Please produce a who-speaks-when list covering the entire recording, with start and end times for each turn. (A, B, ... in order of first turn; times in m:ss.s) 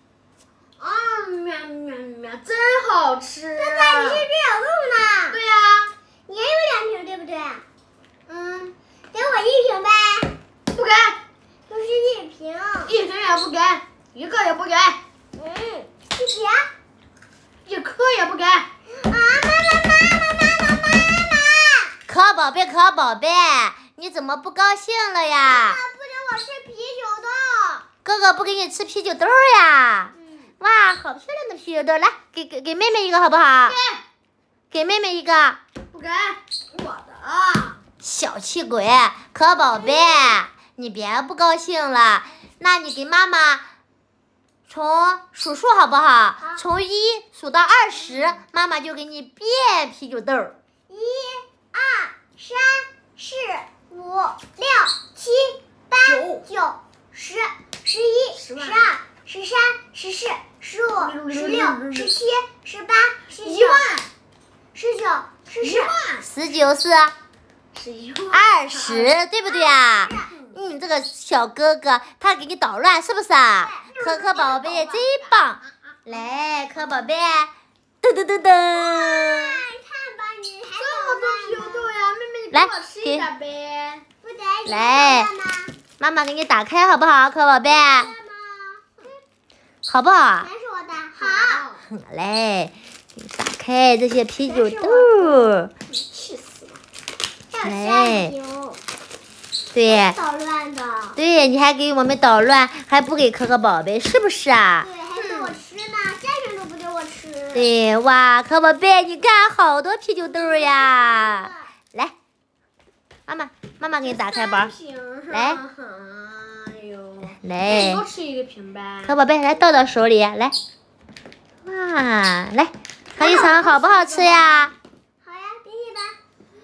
0:00.8-0:04.3 A
0:03.6-0:05.4 B
0:05.3-0:05.9 A
0:06.3-0:07.6 B
0:08.3-0:10.3 B
0:10.7-0:11.2 A
0:11.7-0:12.9 B
0:12.9-0:15.0 A
0:15.4-0:16.7 B
0:17.6-0:18.7 A
0:18.9-0:22.0 B
0:22.1-0:25.8 C
0:25.4-0:27.8 B
0:28.0-0:33.8 C
0:33.6-0:34.0 A
0:34.7-0:35.6 C
0:35.9-0:37.8 A
0:38.0-0:43.6 C
0:39.5-0:40.4 B
0:44.7-0:50.5 C
0:50.9-1:04.0 B
0:56.0-0:56.4 A
0:58.3-0:58.9 A
1:01.0-1:02.1 A
1:03.3-1:04.0 A
1:04.7-1:05.9 B
1:05.6-1:06.3 A
1:06.2-1:07.1 C
1:07.7-1:09.2 A
1:08.3-1:17.5 C
1:09.5-1:10.3 B
1:13.6-1:13.9 B
1:13.9-1:15.4 A
1:18.0-1:19.6 C
1:18.7-1:21.9 B
1:20.8-1:24.0 A
1:22.5-1:23.3 C
1:24.2-1:25.7 B
1:24.6-1:25.3 C
1:26.0-1:28.1 C
1:27.6-1:29.2 B
1:29.8-1:30.5 C
1:30.4-1:31.6 B
1:31.1-1:31.8 A
1:31.9-1:35.7 C
1:34.4-1:35.4 B
1:35.9-1:36.8 A
1:37.5-1:38.8 B
1:37.6-1:38.3 C
1:39.7-1:40.2 C
1:39.9-1:41.2 B
1:41.2-1:44.9 C
1:44.8-1:47.7 B
1:45.1-1:45.6 A
1:47.5-1:52.1 C
1:50.2-1:51.7 B
1:53.3-1:54.7 C
1:54.0-1:59.2 A
1:55.3-1:55.6 C
1:57.4-1:58.0 C
1:59.0-2:00.5 C
2:01.6-2:04.7 C
2:03.2-2:04.7 A
2:03.2-2:03.6 B
2:05.2-2:06.2 B